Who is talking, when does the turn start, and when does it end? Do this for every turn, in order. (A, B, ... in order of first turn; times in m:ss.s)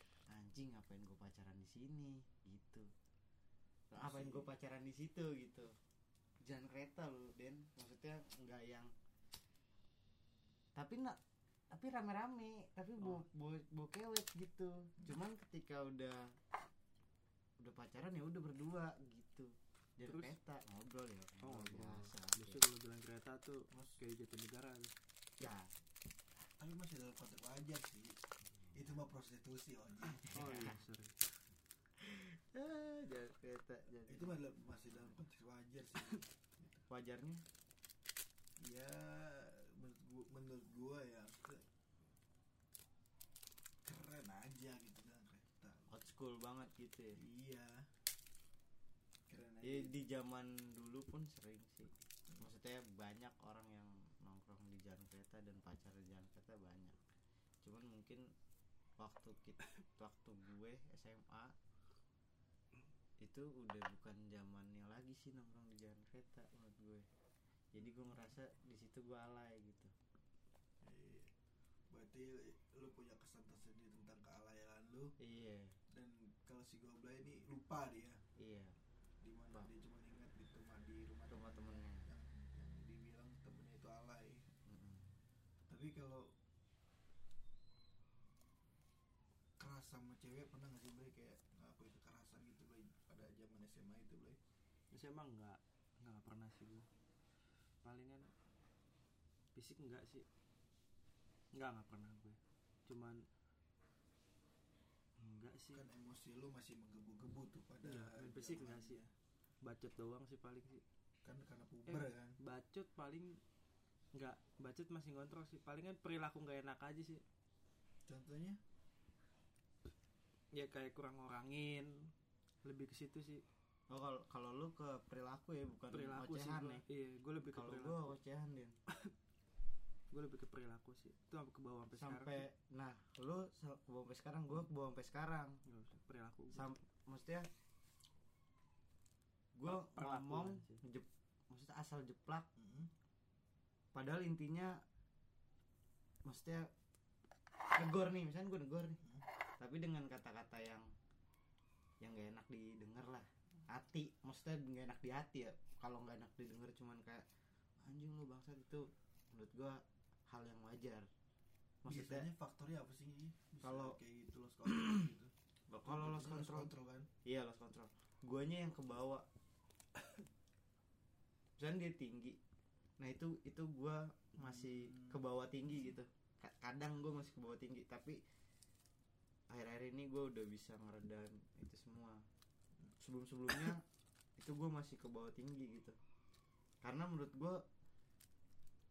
0:00.3-0:02.9 A
0:03.9-0:05.7 A
0:04.0-0:04.5 B
0:06.4-0:08.9 A
0:10.8-0:11.2 A
0:11.7-0:16.4 A
0:17.6-0:22.6 A
0:20.0-0:20.4 C
0:21.4-0:24.9 C
0:25.4-0:25.7 A
0:26.6-0:28.2 B
0:28.7-0:30.6 B
0:30.2-0:31.2 C
0:30.3-0:30.8 A
0:32.1-0:34.4 A
0:34.1-0:36.8 B
0:36.9-0:37.4 A
0:38.6-0:41.6 B
0:43.8-0:45.9 B
0:45.9-0:47.2 A
0:47.2-0:47.8 B
0:49.3-0:50.0 B
0:49.6-0:57.0 A
0:57.6-0:58.2 A
0:59.0-1:01.6 A
1:03.2-1:07.1 A
1:07.7-1:09.9 A
1:10.8-1:11.3 B
1:11.9-1:15.1 B
1:15.2-1:15.8 A
1:15.9-1:18.2 B
1:18.4-1:18.8 A
1:19.2-1:24.4 B
1:21.3-1:22.1 A
1:24.7-1:25.1 A
1:25.7-1:26.3 B
1:29.6-1:34.4 B
1:34.9-1:36.9 C
1:37.8-1:38.3 C
1:39.6-1:40.3 C
1:41.6-1:43.2 C
1:45.2-1:45.8 C
1:45.7-1:49.1 B
1:47.8-1:49.0 C
1:49.6-1:50.8 C
1:51.2-1:52.4 B
1:51.9-1:53.4 C
1:54.1-1:57.2 C
1:58.1-1:58.6 B
2:00.5-2:02.1 C
2:02.6-2:03.4 C
2:03.9-2:06.8 A
2:05.9-2:08.1 C
2:07.4-2:08.8 A
2:10.1-2:12.5 C
2:11.9-2:15.6 A
2:15.7-2:16.7 C
2:16.5-2:17.5 A
2:19.6-2:22.5 A
2:19.7-2:20.8 C
2:22.6-2:22.9 B
2:23.9-2:24.8 A
2:26.2-2:26.7 A
2:27.7-2:29.0 A
2:29.6-2:30.9 A
2:32.0-2:37.2 A
2:37.8-2:41.1 A
2:41.8-2:42.3 A
2:41.9-2:45.3 B
2:43.6-2:44.0 A
2:44.7-2:45.0 A
2:45.7-2:46.7 A
2:45.8-2:47.1 B
2:47.2-2:49.3 A
2:51.6-2:52.4 A
2:53.0-2:58.2 A
2:54.4-2:55.2 B
2:59.5-3:02.2 A
3:03.0-3:03.8 A
3:04.4-3:06.0 A
3:06.8-3:07.6 A